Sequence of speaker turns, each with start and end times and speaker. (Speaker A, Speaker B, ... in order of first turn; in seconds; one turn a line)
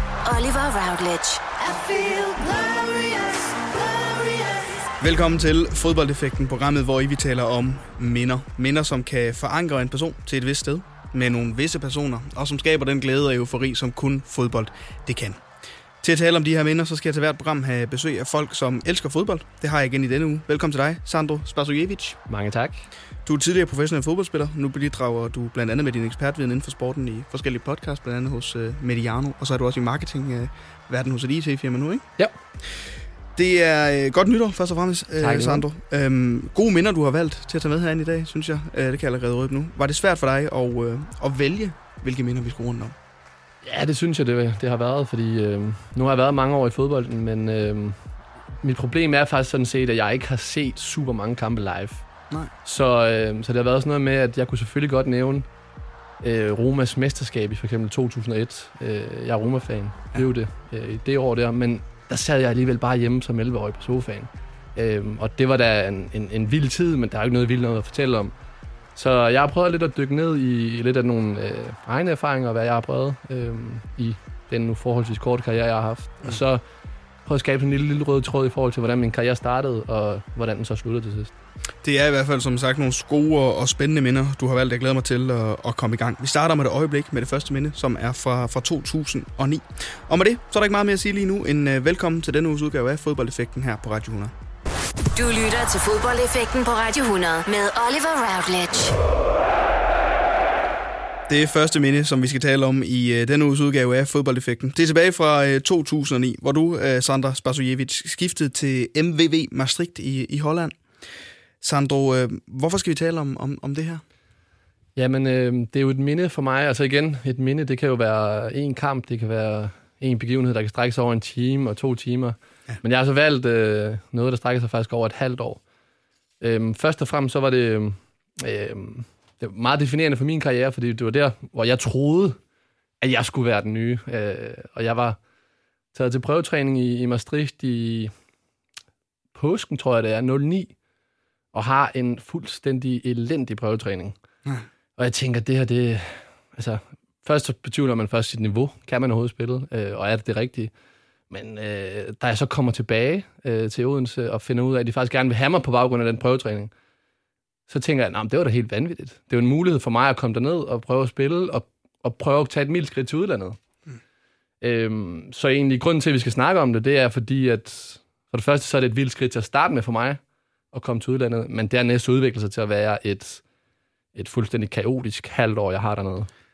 Speaker A: 0.2-3.4
Speaker B: 5.0-15.4
Speaker B: 16.0-22.2
Speaker C: 22.3-22.8
Speaker B: 23.2-32.0
Speaker B: 33.3-43.0
Speaker C: 35.2-35.6
Speaker C: 43.6-48.0
Speaker C: 48.6-52.0
Speaker C: 52.6-55.5
Speaker C: 56.2-68.3
Speaker C: 69.0-76.6
Speaker C: 77.2-81.3
Speaker B: 81.8-94.3
Speaker A: 95.1-98.9
Speaker B: 101.3-110.8
Speaker B: 111.6-114.0
Speaker C: 115.0-125.6
Speaker C: 126.4-132.4
Speaker C: 133.0-135.2
Speaker C: 135.9-138.1
Speaker C: 139.3-140.7
Speaker C: 141.5-144.2
Speaker C: 145.0-150.7
Speaker C: 151.3-156.7
Speaker C: 157.7-163.6
Speaker C: 164.6-170.2
Speaker C: 170.7-173.4
Speaker C: 174.1-176.3